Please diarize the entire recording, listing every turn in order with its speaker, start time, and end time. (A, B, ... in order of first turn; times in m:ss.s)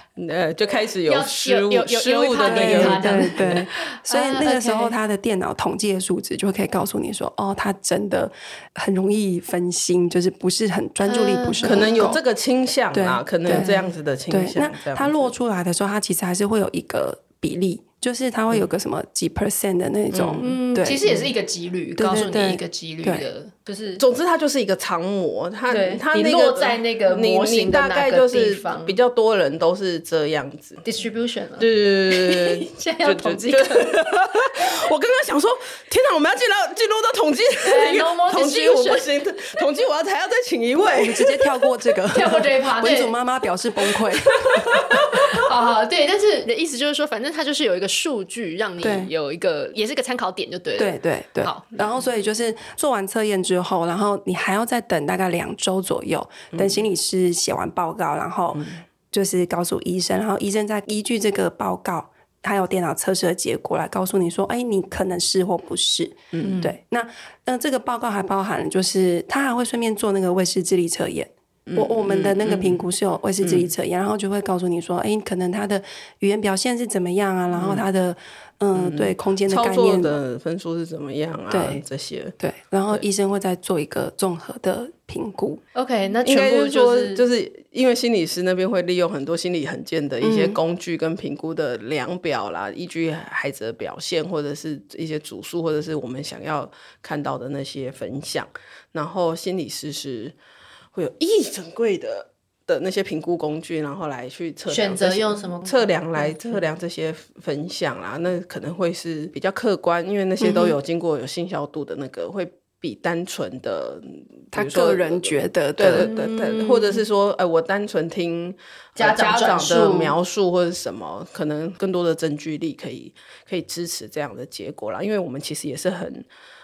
0:00.2-0:03.6 A
0:01.1-0:04.9 B
0:02.4-0:12.2 C
0:11.0-0:12.2 B
0:11.6-0:15.3 A
0:12.9-0:13.8 C
0:13.5-0:13.9 B
0:14.3-0:21.0 C
0:20.1-0:20.5 A
0:20.4-0:24.0 B
0:22.0-0:23.3 C
0:24.0-0:30.8 A
0:25.7-0:29.0 B
0:30.8-0:34.0 B
0:31.6-0:41.7 A
0:37.6-0:39.1 B
0:40.9-0:45.0 C
0:42.1-0:43.2 B
0:44.0-0:45.4 A
0:45.1-0:51.7 B
0:48.8-0:49.1 C
0:50.8-1:20.2 C
0:56.5-0:56.8 A
0:58.6-0:58.8 A
1:06.3-1:06.7 A
1:06.4-1:06.7 B
1:11.7-1:12.8 A
1:13.4-1:13.7 A
1:17.6-1:17.9 A
1:18.8-1:22.4 A
1:21.5-1:21.8 C
1:22.4-1:25.6 C
1:25.8-1:27.2 B
1:26.2-1:40.4 A
1:30.2-1:30.6 C
1:40.9-2:06.3 A
1:44.7-1:46.6 B
1:50.4-1:50.8 C
1:54.5-1:56.1 C
1:55.9-1:57.0 B
1:59.0-2:00.2 B